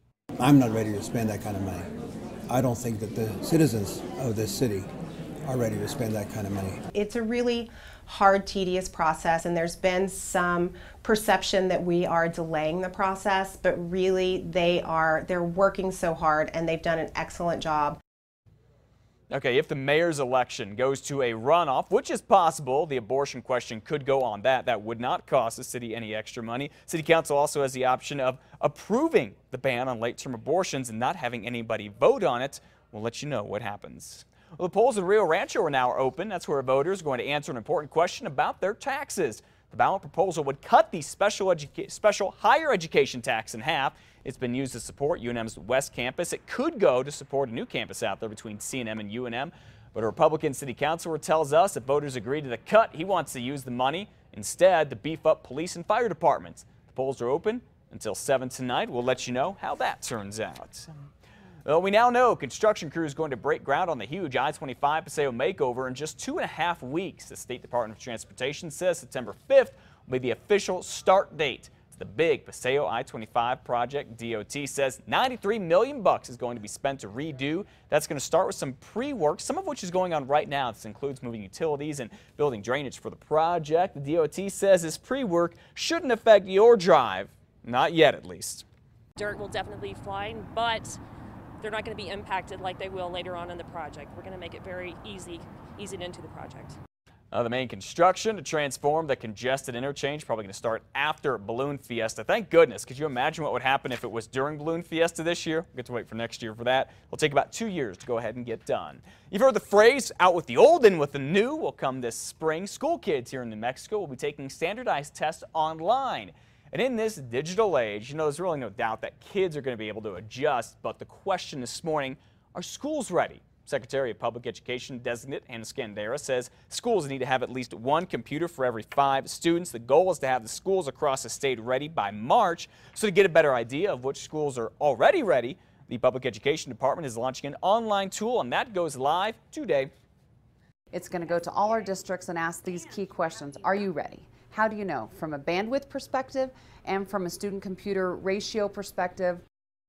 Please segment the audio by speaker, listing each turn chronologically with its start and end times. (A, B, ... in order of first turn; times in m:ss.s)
0:00.4-0:01.9 A
0:02.5-0:04.9 A
0:05.4-0:06.8 A
0:06.9-0:18.0 B
0:19.3-1:01.1 C
1:01.6-1:28.7 C
1:29.2-1:31.0 D
1:31.6-1:36.8 D
1:37.3-2:19.9 C
2:20.9-2:29.4 E